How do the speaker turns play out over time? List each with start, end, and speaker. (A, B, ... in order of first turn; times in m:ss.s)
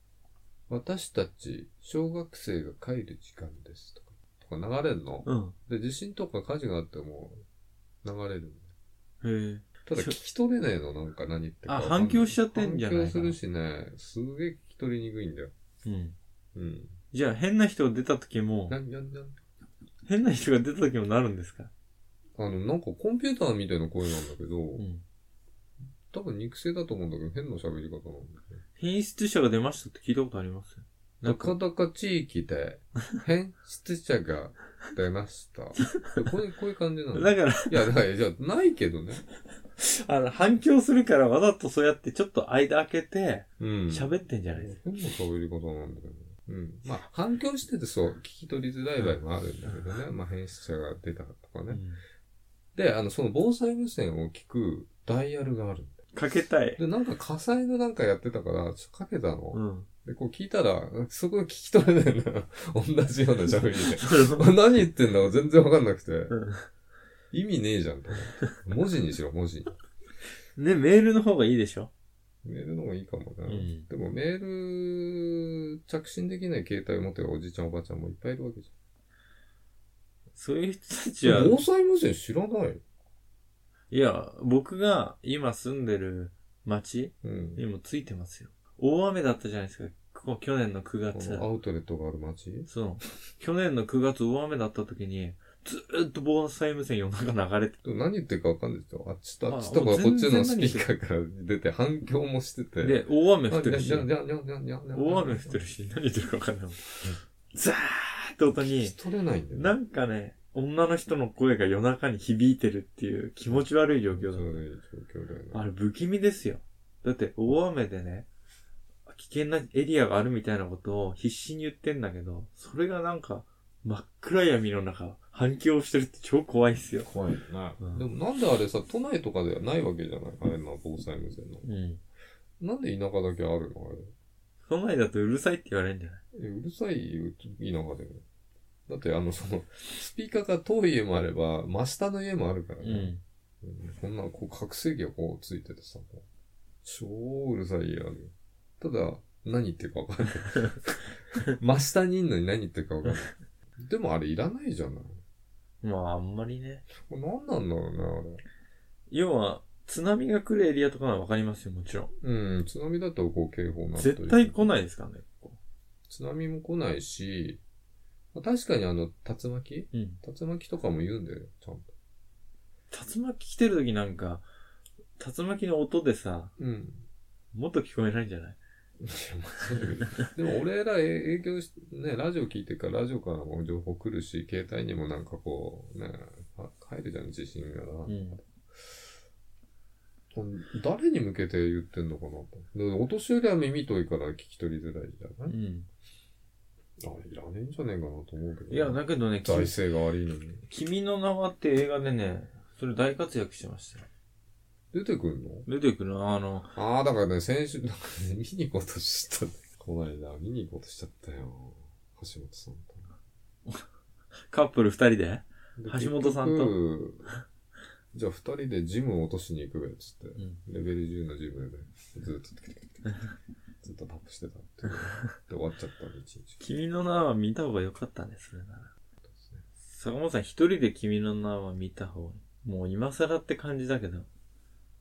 0:00.7-0:07.4 A
0:05.3-0:05.6 B
0:08.0-0:08.7 A
0:09.2-0:10.2 B
0:09.9-0:15.5 A
0:11.7-0:13.4 B
0:15.8-0:16.2 B
0:16.6-0:17.0 A
0:17.1-0:18.8 B
0:18.7-0:19.4 A
0:20.1-0:21.7 B
0:22.4-0:24.8 A
0:24.8-0:25.0 B
0:26.1-0:28.6 A
0:28.8-0:31.6 B
0:31.2-0:39.2 A
0:37.1-0:37.9 B
0:39.8-0:44.8 B
0:43.6-0:51.8 A
0:51.7-0:52.0 B
0:52.8-0:56.0 A
0:56.2-0:56.8 B
0:56.8-1:06.4 A
0:59.5-0:59.9 B
1:04.0-1:04.5 B
1:06.3-1:06.7 B
1:07.3-1:09.8 A
1:10.6-1:11.9 B
1:12.4-1:18.7 A
1:13.5-1:13.9 B
1:20.4-1:21.6 B
1:21.2-1:22.8 A
1:23.9-1:31.5 B
1:27.2-1:27.6 A
1:31.1-1:32.7 A
1:32.7-1:37.8 B
1:37.8-1:45.7 A
1:39.5-1:40.9 B
1:42.8-1:44.1 B
1:44.9-1:49.0 B
1:48.5-1:49.8 A
1:49.5-1:54.6 B
1:53.5-1:55.6 A
1:55.5-1:58.3 B
1:59.1-2:07.1 B
2:07.0-2:11.7 A
2:11.6-2:12.0 B
2:12.6-2:14.1 A
2:14.7-2:16.2 B
2:16.3-2:18.2 A
2:18.9-2:26.2 A
2:22.8-2:23.2 B
2:26.8-2:35.2 A
2:35.8-2:36.8 B
2:36.9-2:38.4 A
2:39.1-2:42.1 B
2:42.2-2:44.7 A
2:44.0-2:45.6 B
2:46.1-2:47.6 A
2:48.3-2:51.9 A
2:49.9-2:50.2 B
2:52.9-2:54.5 B
2:55.2-2:56.5 B
2:56.6-2:57.0 A
2:57.5-2:58.6 B
2:59.0-3:09.0 A
2:59.8-3:00.3 B
3:08.1-3:08.4 B
3:10.3-3:15.6 A
3:15.5-3:15.9 B
3:17.0-3:20.6 A
3:18.7-3:19.8 B
3:20.7-3:24.1 B
3:24.9-3:25.7 A
3:25.7-3:26.7 B
3:26.8-3:33.1 A
3:34.5-3:36.8 B
3:35.8-3:37.3 A
3:38.1-3:43.2 A
3:43.8-3:46.6 A
3:46.6-3:48.9 B
3:49.2-3:49.6 A
3:49.9-3:54.3 B